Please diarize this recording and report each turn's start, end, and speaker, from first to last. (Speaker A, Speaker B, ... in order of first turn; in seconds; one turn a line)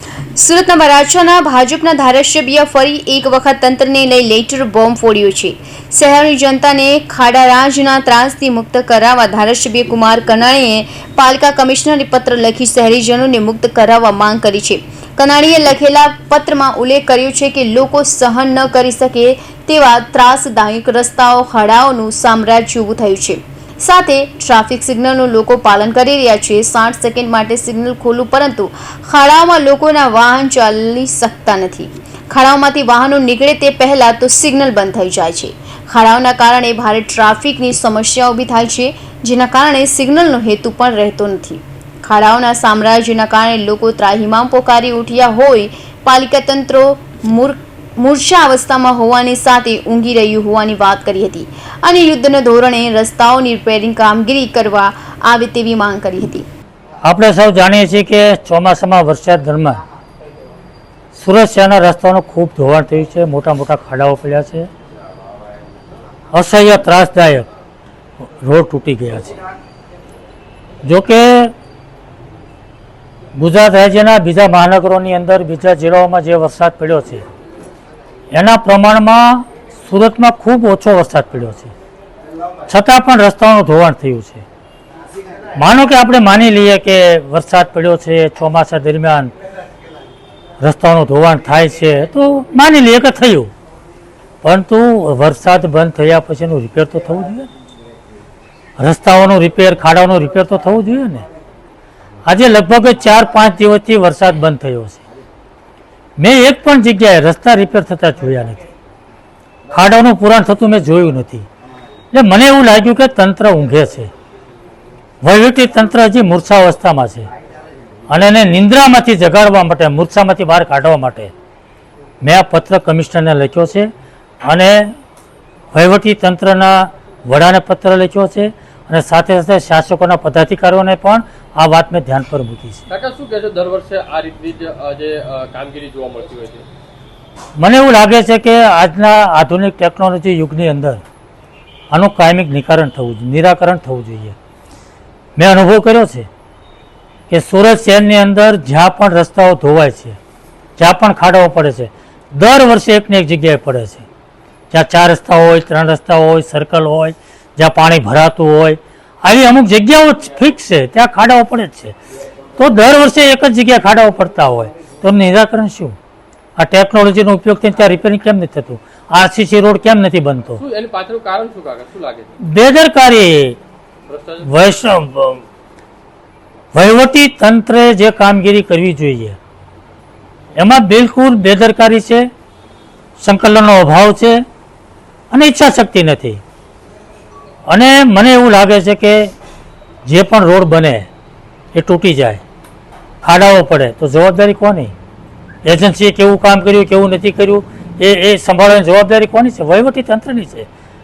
Speaker A: 0.4-56.5
Speaker B: 57.0-59.8
Speaker B: 61.1-64.7
Speaker B: 66.3-67.5
Speaker B: 68.4-69.4
Speaker B: 70.8-71.5
Speaker B: 73.3-77.2
Speaker B: 78.3-81.7
Speaker B: 82.7-84.5
Speaker B: 85.6-89.3
Speaker B: 90.6-93.5
Speaker B: 94.4-97.5
Speaker B: 98.8-101.3
Speaker B: 102.2-105.0
Speaker B: 106.2-108.6
Speaker B: 109.7-111.5
Speaker B: 112.1-114.1
Speaker B: 115.2-117.3
Speaker B: 118.1-121.3
Speaker B: 122.2-123.9
Speaker B: 124.5-125.0
Speaker B: 125.7-132.8
Speaker C: 132.9-136.7
Speaker B: 137.6-141.0
Speaker B: 141.9-144.4
Speaker B: 145.4-146.3
Speaker B: 147.3-150.2
Speaker B: 150.8-154.1
Speaker B: 154.7-161.9
Speaker B: 162.6-166.0
Speaker B: 166.6-170.6
Speaker C: 170.6-172.3
Speaker B: 172.4-173.6
Speaker C: 174.1-174.7
Speaker B: 174.4-175.4
Speaker B: 176.7-179.4
Speaker B: 180.6-182.3
Speaker B: 183.2-184.4
Speaker B: 185.3-186.4
Speaker B: 187.7-189.3
Speaker B: 190.1-191.1
Speaker B: 191.7-192.4
Speaker B: 193.2-194.9
Speaker B: 195.6-200.7